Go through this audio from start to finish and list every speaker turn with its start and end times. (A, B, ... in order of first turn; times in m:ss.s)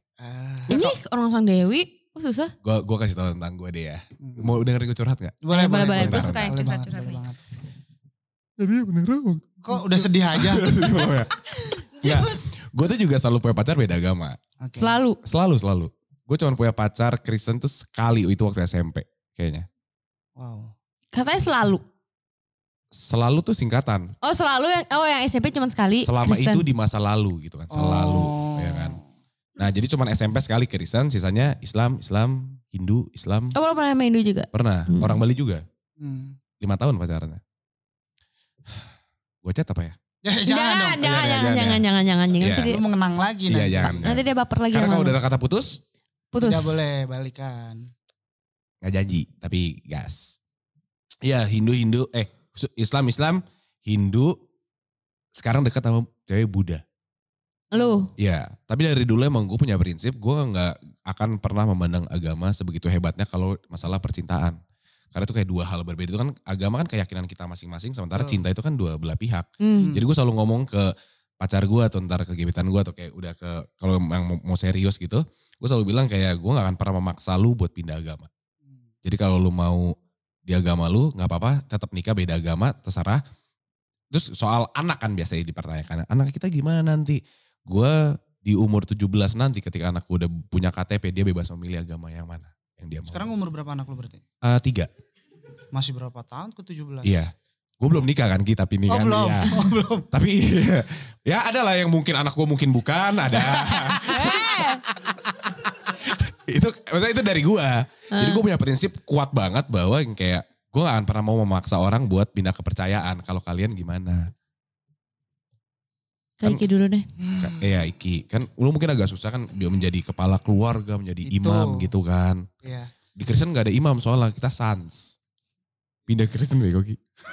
0:00.2-0:01.0 A
0:00.7-0:02.5 B
0:02.6-0:06.6 C
0:04.2-0:04.6 A
0:05.4-0:07.4 A
0:05.5-0:07.2 B
0:08.6-0:14.4 C
0:09.6-0:10.7 A
0:10.8-0:12.4 B
0:14.6-0:15.0 A
0:14.8-0:15.2 B
0:15.2-0:19.7 C
0:20.4-0:20.7 A
0:21.1-0:21.8 B
0:22.9-0:24.1 C
0:24.2-0:26.6 B
0:26.0-0:29.0 C
0:27.7-0:29.0 A
0:29.6-0:33.6 C
0:33.6-0:35.2 B
0:34.5-0:35.6 C
0:36.0-0:36.4 A
0:36.6-0:37.4 C
0:39.4-0:40.0 C
0:40.2-0:41.1 A
0:40.5-0:42.8 B
0:41.0-0:41.8 C
0:42.4-0:42.8 C
0:42.6-0:44.1 A
0:43.5-0:45.8 C
0:43.9-0:45.2 B
0:46.3-0:46.8 B
0:46.4-0:47.9 A
0:48.8-0:50.4 C
0:51.2-0:54.4 C
0:55.4-0:56.8 C
0:57.7-0:58.1 B
0:57.7-0:58.1 A
0:58.2-1:04.6 C
1:05.1-1:18.3 C
1:08.2-1:08.4 A
1:09.6-1:09.9 B
1:09.8-1:10.0 A
1:19.0-1:20.0 C
1:20.5-1:23.2 C
1:24.1-1:33.3 C
1:33.1-1:34.2 A
1:34.4-1:34.9 C
1:35.7-1:37.2 A
1:37.0-1:39.6 C
1:38.9-1:40.1 A
1:40.1-1:44.6 C
1:43.4-1:44.4 A
1:44.0-1:44.8 B
1:45.0-1:45.5 A
1:45.9-1:54.3 C
1:48.1-1:48.4 B
1:56.4-1:57.1 B
1:57.2-1:57.7 A
1:57.4-2:02.5 C
2:01.2-2:01.9 A
2:02.6-2:02.9 A
2:03.2-2:05.2 C
2:06.1-2:07.0 C